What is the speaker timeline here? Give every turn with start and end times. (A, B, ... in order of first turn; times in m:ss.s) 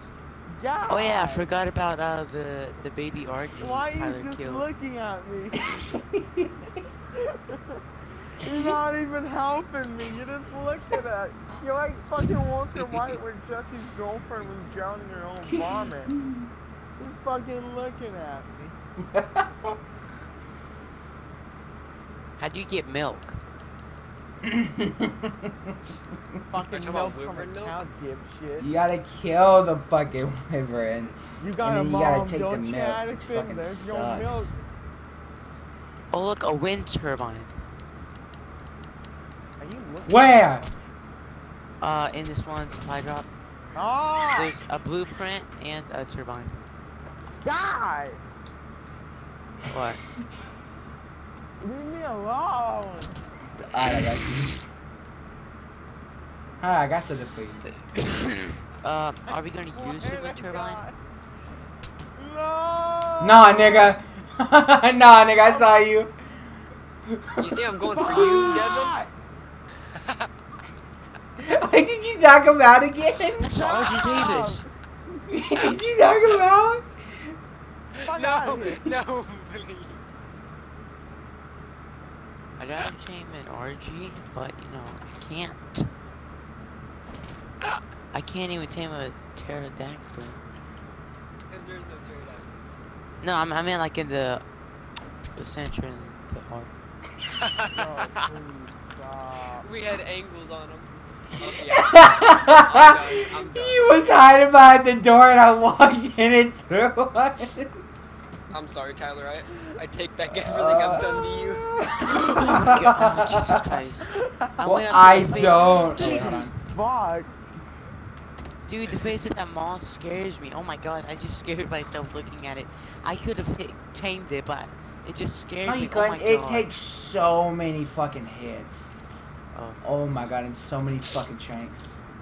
0:00.5-0:01.5 A
0:00.9-0:04.7 B
0:03.6-0:05.6 A
0:05.8-0:06.7 C
0:07.2-0:07.8 A
0:08.4-0:16.1 A
0:15.5-0:16.4 C
0:17.0-0:18.8 A
0:19.1-0:19.7 C
0:22.4-0:23.4 B
0:24.4-0:25.7 C
0:26.5-0:28.7 A
0:26.6-0:27.8 D
0:28.6-0:34.5 C
0:31.4-0:34.5 A
0:36.1-0:37.5 B
0:39.6-0:40.7 A
0:40.0-0:40.7 C
0:41.8-0:43.3 B
0:43.7-0:44.5 A
0:44.3-0:46.6 B
0:47.4-0:48.2 A
0:49.7-0:50.0 B
0:51.6-0:53.2 A
0:53.6-0:54.6 C
0:56.6-0:57.7 C
0:57.9-1:00.8 B
0:59.7-1:01.0 A
1:02.2-1:03.9 A
1:03.2-1:06.1 C
1:05.4-1:05.7 A
1:07.1-1:08.6 C
1:07.4-1:09.0 D
1:07.9-1:09.1 A
1:09.9-1:10.3 D
1:11.4-1:13.5 C
1:13.4-1:14.6 B
1:13.6-1:14.6 A
1:15.3-1:17.3 C
1:17.9-1:20.0 D
1:18.0-1:18.8 A
1:22.6-1:25.9 B
1:28.1-1:30.4 B
1:31.5-1:32.8 D
1:33.2-1:34.4 B
1:35.3-1:36.7 B
1:37.4-1:38.2 D
1:37.7-1:39.7 A
1:39.6-1:44.1 D
1:41.5-1:47.7 C
1:48.5-1:51.7 D
1:50.3-1:53.6 C
1:52.0-1:56.5 B
1:54.2-1:54.5 A
1:54.6-1:56.5 C
1:55.5-1:57.3 A
1:58.6-2:06.7 B
2:05.6-2:08.9 C
2:09.5-2:09.8 B
2:09.8-2:12.0 C